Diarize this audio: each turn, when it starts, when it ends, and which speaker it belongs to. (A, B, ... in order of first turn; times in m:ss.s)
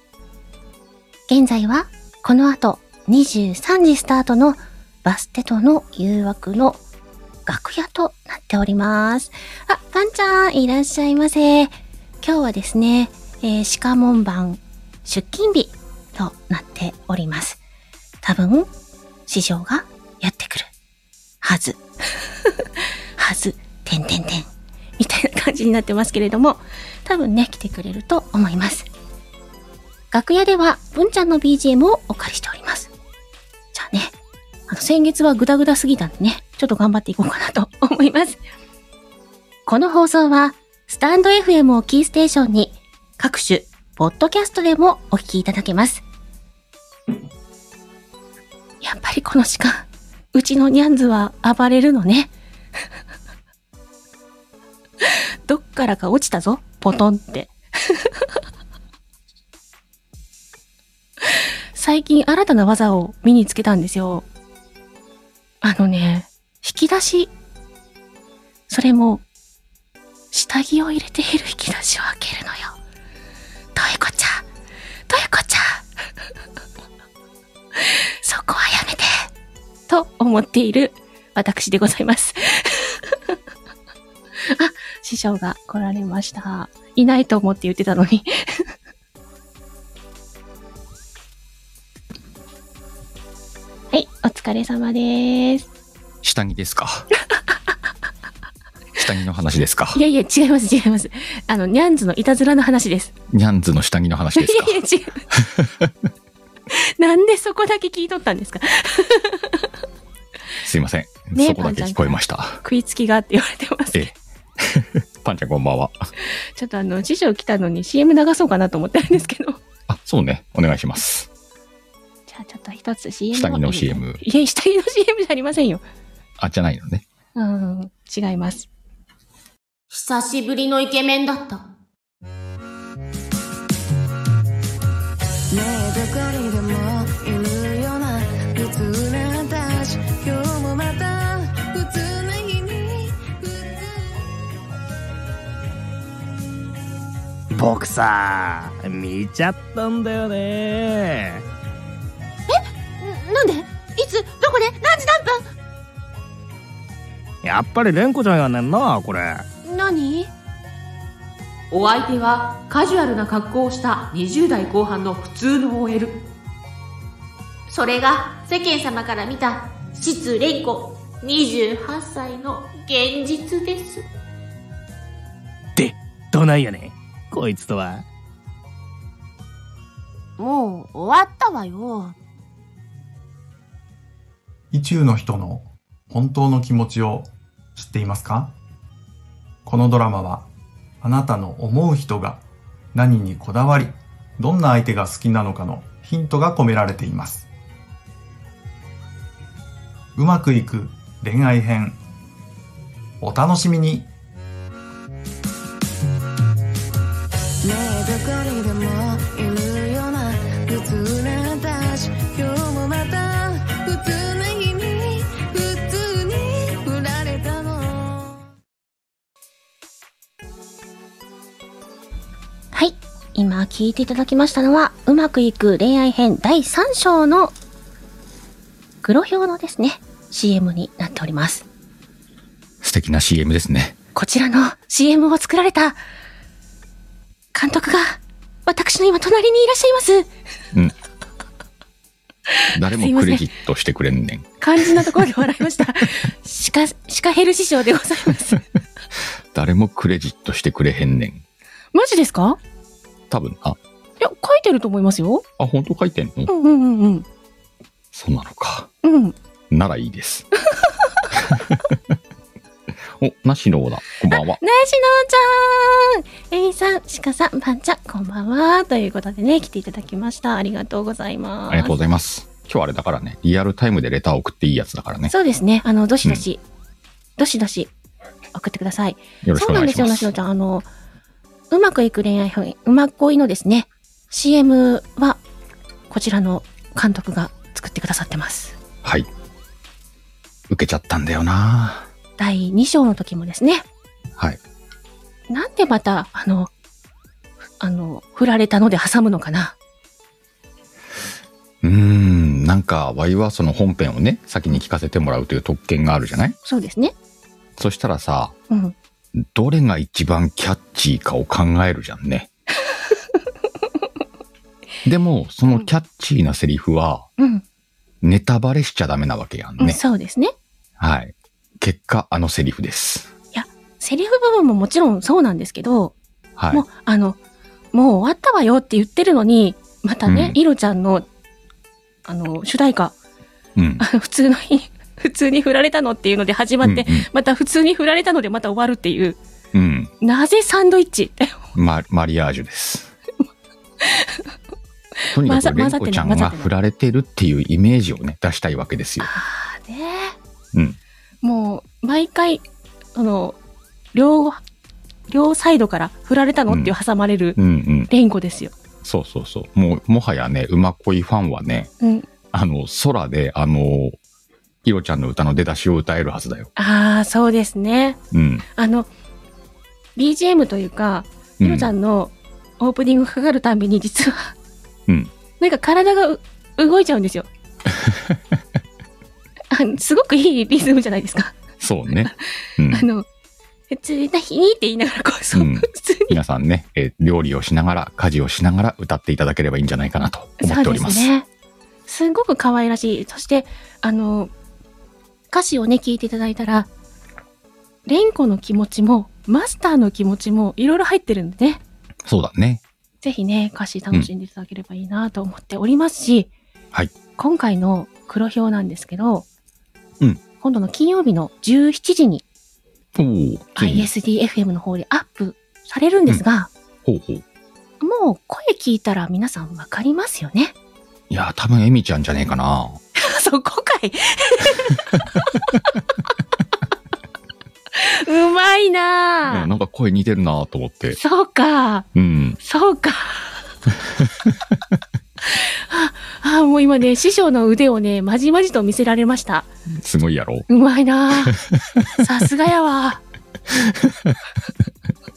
0:01.3-0:06.8 A
0:07.5-0:17.6 A
0:18.2-0:18.7 A
0:19.3-0:20.7 A
0:21.4-0:21.8 A
0:23.2-0:28.9 A
0:30.1-0:32.9 A
0:33.7-0:34.1 A
0:34.7-0:38.4 A
0:39.7-0:46.0 A
0:48.8-0:52.3 A
0:55.0-0:58.2 A
1:01.2-1:04.2 A
1:05.6-1:07.3 A
1:08.7-1:09.2 A
1:10.3-1:12.8 A
1:13.8-1:14.5 A
1:15.1-1:15.9 A
1:17.8-1:19.2 A
1:19.9-1:23.4 A
1:24.5-1:28.7 A
1:33.9-1:35.7 A
1:36.2-1:37.1 B
1:39.0-1:40.0 B
1:39.9-1:43.1 A
1:43.3-1:44.8 B
1:44.4-1:45.2 A
1:45.3-1:45.9 B
1:46.7-1:49.7 A
1:50.6-1:52.6 B
1:51.3-1:54.2 A
1:53.9-1:56.0 B
1:56.3-1:59.6 A
1:59.9-2:01.3 B
2:02.3-2:05.8 A
2:03.3-2:04.2 B
2:06.4-2:07.0 B
2:07.4-2:08.7 A
2:09.9-2:10.2 C
2:10.0-2:10.3 D
2:15.5-2:24.2 D
2:27.5-2:31.4 E
2:32.5-2:35.3 A
2:37.4-2:39.4 E
2:39.7-2:40.3 A
2:41.8-2:46.0 A
2:47.8-2:48.7 A
2:55.8-2:58.0 E
3:00.4-3:02.1 C
3:04.7-3:08.6 F
3:09.7-3:10.5 F
3:11.0-3:12.4 F
3:12.9-3:17.5 F
3:20.2-3:22.0 F
3:23.2-3:24.1 F
3:27.6-3:38.4 D
3:42.7-3:47.5 A
3:49.0-3:51.6 A
3:52.8-3:54.0 B
3:54.2-3:56.0 A
3:57.5-4:00.3 A
4:02.5-4:03.4 A
4:02.8-4:05.1 B
4:04.6-4:08.6 A
4:09.5-4:11.4 B
4:11.9-4:12.6 A
4:13.3-4:13.8 B
4:14.2-4:15.4 A
4:15.6-4:16.5 B
4:16.5-4:17.3 A
4:18.1-4:18.9 B
4:19.0-4:19.4 A
4:19.7-4:20.5 B
4:20.8-4:21.2 A
4:21.3-4:22.1 B
4:23.1-4:24.6 B
4:24.3-4:31.9 A
4:31.7-4:35.3 B
4:35.3-4:36.6 A
4:37.4-4:37.9 A
4:38.5-4:40.9 A
4:39.4-4:40.3 B
4:41.7-4:45.4 A
4:46.1-4:48.8 A
4:50.7-4:52.1 B
4:52.4-4:53.8 A
4:55.5-4:56.7 A
4:57.8-4:59.8 A
5:01.8-5:06.6 B
5:06.6-5:07.1 A
5:07.8-5:08.6 B
5:08.7-5:09.0 A
5:09.4-5:12.5 B
5:15.0-5:17.3 B
5:17.4-5:17.6 A
5:18.2-5:20.0 B
5:19.8-5:20.5 A
5:21.0-5:23.3 B
5:23.5-5:26.2 A
5:26.6-5:26.8 B
5:26.7-5:27.4 A
5:27.9-5:31.3 A
5:30.3-5:30.6 B
5:32.2-5:33.2 A
5:33.8-5:34.0 B
5:34.0-5:39.4 A
5:36.8-5:37.3 B
5:39.7-5:40.1 B
5:40.2-5:41.6 A
5:41.8-5:43.1 B
5:44.0-5:44.5 A
5:45.3-5:46.7 A
5:45.3-5:49.3 B
5:49.2-5:50.4 A
5:51.4-5:53.6 A
5:54.1-5:54.6 A
5:55.3-5:57.6 A
5:56.7-5:56.9 B
5:57.6-5:58.1 B
5:58.1-5:58.7 A
5:59.0-6:01.9 B
6:02.0-6:02.3 A
6:02.5-6:04.2 B
6:04.8-6:06.7 B
6:06.8-6:08.2 A
6:08.3-6:08.6 B
6:08.8-6:09.1 A
6:10.2-6:14.6 A
6:11.6-6:11.9 B
6:15.6-6:17.5 A
6:18.0-6:18.4 B
6:19.7-6:21.6 A
6:21.8-6:23.1 B
6:22.4-6:23.3 A
6:23.9-6:26.4 A
6:25.5-6:31.3 B
6:30.6-6:31.5 A
6:32.1-6:34.5 A
6:35.5-6:36.9 A
6:38.1-6:41.8 A
6:42.2-6:42.8 B
6:43.2-6:46.5 A
6:47.4-6:49.5 A
6:50.6-6:52.4 A
6:53.2-6:54.1 B
6:53.8-6:56.7 A
6:57.0-6:57.4 B
6:58.0-7:00.7 A
7:01.3-7:03.0 B
7:03.2-7:05.8 A
7:07.9-7:09.7 A
7:09.5-7:11.2 B
7:11.2-7:12.1 A
7:12.2-7:12.6 B
7:12.6-7:13.6 A
7:14.2-7:14.5 B
7:15.4-7:19.7 A
7:19.9-7:20.7 B
7:20.7-7:21.6 A
7:21.3-7:22.1 B
7:22.2-7:23.2 A
7:23.8-7:24.4 B